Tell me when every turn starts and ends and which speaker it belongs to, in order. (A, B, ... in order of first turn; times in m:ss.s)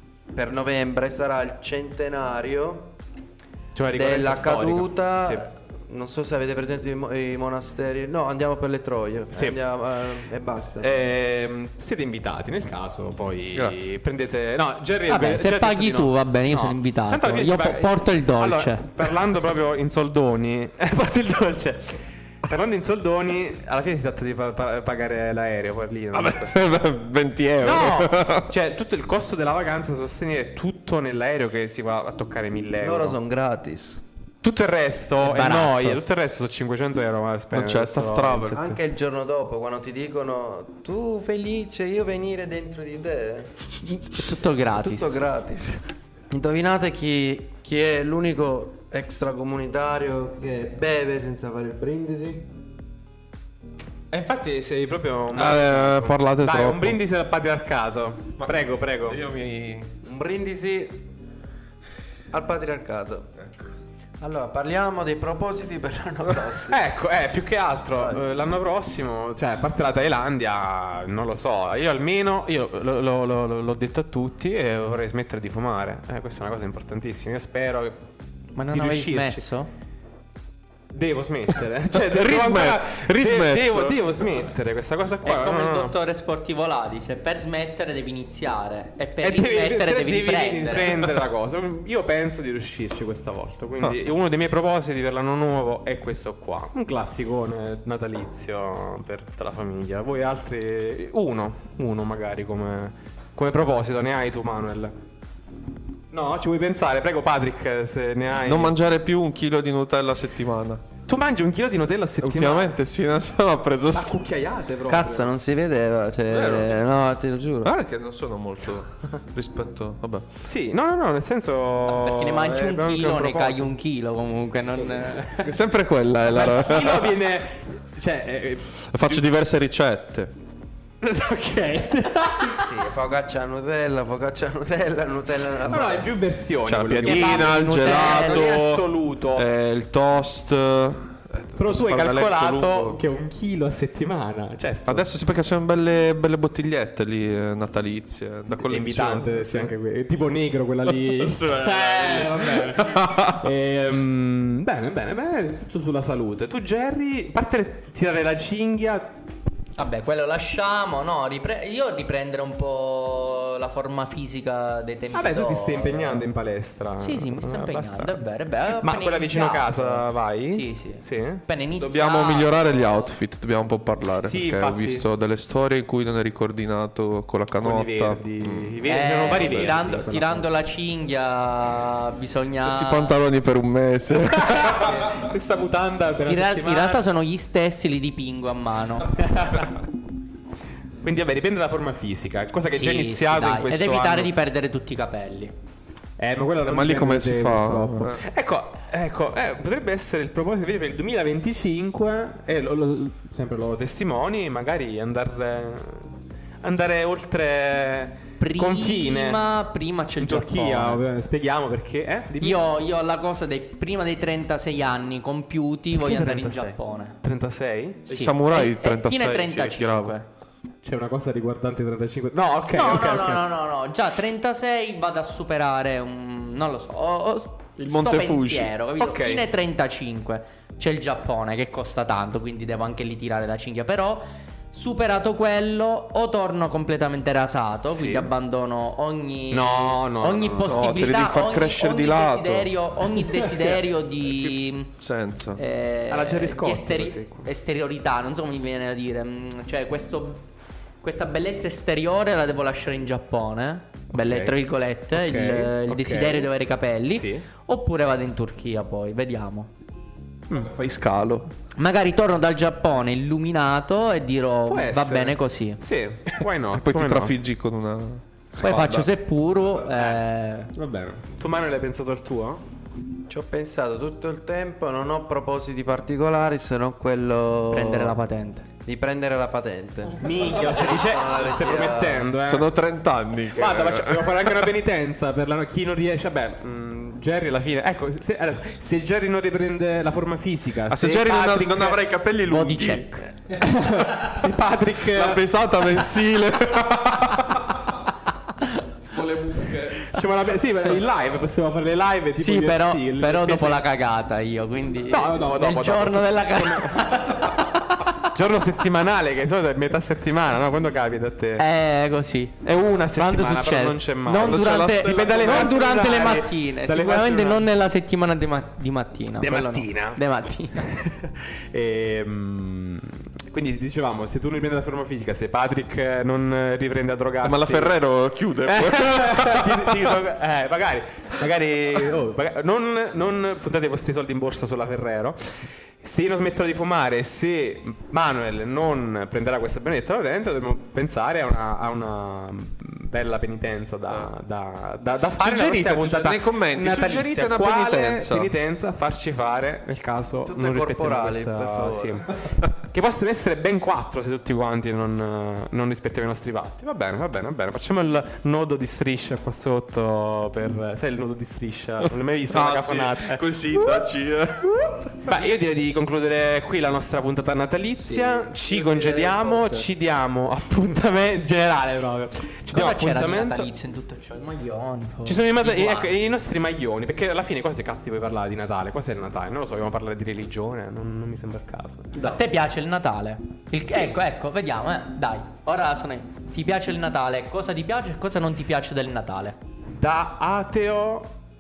0:00.3-0:02.9 A
0:03.7-0:05.5 B
0:03.9-0:10.9 A
0:09.3-0:09.6 B
0:10.8-0:26.6 B
0:13.6-0:13.9 C
0:15.1-0:18.9 D
0:26.1-0:28.5 C
0:27.6-0:33.2 B
0:32.8-0:34.0 A
0:34.4-0:38.6 B
0:35.2-0:36.0 D
0:37.5-0:38.8 C
0:38.5-0:43.5 A
0:43.9-0:45.2 D
0:44.7-0:52.5 A
0:54.1-0:59.2 B
0:55.3-0:57.0 C
0:58.4-0:59.9 C
1:00.0-1:01.1 A
1:02.3-1:03.3 A
1:04.2-1:06.8 A
1:06.7-1:18.0 B
1:08.0-1:08.2 A
1:18.6-1:19.7 D
1:18.7-1:19.5 B
1:20.9-1:26.0 B
1:21.9-1:24.0 C
1:25.2-1:31.0 D
1:29.2-1:44.9 B
1:46.1-1:48.8 B
1:48.4-1:50.8 C
1:51.1-1:52.7 B
1:52.2-1:54.2 C
1:53.9-1:55.3 B
1:54.9-1:57.7 A
1:56.3-1:56.8 C
1:57.6-2:00.2 C
2:00.4-2:03.7 B
2:01.9-2:05.4 D
2:05.4-2:07.2 C
2:06.3-2:09.2 B
2:08.9-2:10.3 C
2:11.0-2:12.6 B
2:12.6-2:16.1 A
2:15.7-2:19.4 B
2:16.6-2:23.0 C
2:17.0-2:18.5 D
2:21.6-2:25.1 B
2:24.9-2:29.7 C
2:28.6-2:39.2 B
2:31.0-2:33.5 C
2:39.8-2:46.2 D
2:45.1-2:51.4 B
2:47.0-2:53.1 D
2:51.8-2:59.8 C
2:54.2-2:55.0 B
2:57.6-3:00.5 B
2:58.9-3:03.2 D
3:02.6-3:05.1 C
3:04.4-3:07.1 B
3:06.3-3:09.1 D
3:09.1-3:09.8 B
3:11.0-3:14.3 B
3:12.7-3:15.6 D
3:16.2-3:29.4 B
3:16.6-3:18.2 C
3:28.4-3:31.0 D
3:30.2-3:32.6 B
3:32.4-3:37.2 D
3:36.0-3:38.1 B
3:38.1-3:40.2 C
3:38.1-3:40.3 D
3:40.8-3:43.5 B
3:42.7-4:04.9 D
3:47.8-3:48.7 C
3:49.0-3:49.4 B
3:57.9-3:58.3 B
3:59.5-4:00.8 B
4:00.7-4:05.6 C
4:05.6-4:10.4 D
4:06.1-4:07.5 B
4:11.0-4:19.7 D
4:14.1-4:14.6 B
4:15.1-4:16.5 B
4:17.1-4:17.4 B
4:20.5-4:21.5 C
4:21.8-4:25.8 D
4:24.7-4:27.4 B
4:26.7-4:29.1 C
4:28.6-4:29.0 B
4:28.6-4:30.7 D
4:30.8-4:32.6 B
4:33.3-4:38.2 A
4:37.7-4:38.6 D
4:38.9-4:42.3 A
4:40.2-4:42.7 B
4:42.4-4:44.7 C
4:43.5-4:52.2 B
4:50.9-4:54.3 C
4:52.5-4:53.2 D
4:53.6-4:55.5 B
4:55.1-4:57.8 C
4:59.1-5:00.2 C
5:00.0-5:03.8 B
5:02.4-5:08.1 D
5:05.1-5:07.2 B
5:08.3-5:11.6 B
5:11.6-5:12.6 D
5:12.6-5:17.7 B
5:13.2-5:20.8 D
5:14.4-5:15.8 C
5:19.4-5:20.2 B
5:20.8-5:28.0 B
5:27.4-5:29.9 C
5:28.6-6:04.1 B
5:45.4-5:48.5 C
5:50.5-5:52.3 A
6:02.5-6:05.4 C
6:05.2-6:13.7 B
6:09.5-6:09.8 C
6:12.7-6:16.1 D
6:15.2-6:22.4 B
6:22.2-6:29.6 D
6:23.9-6:24.2 B
6:30.0-6:31.3 B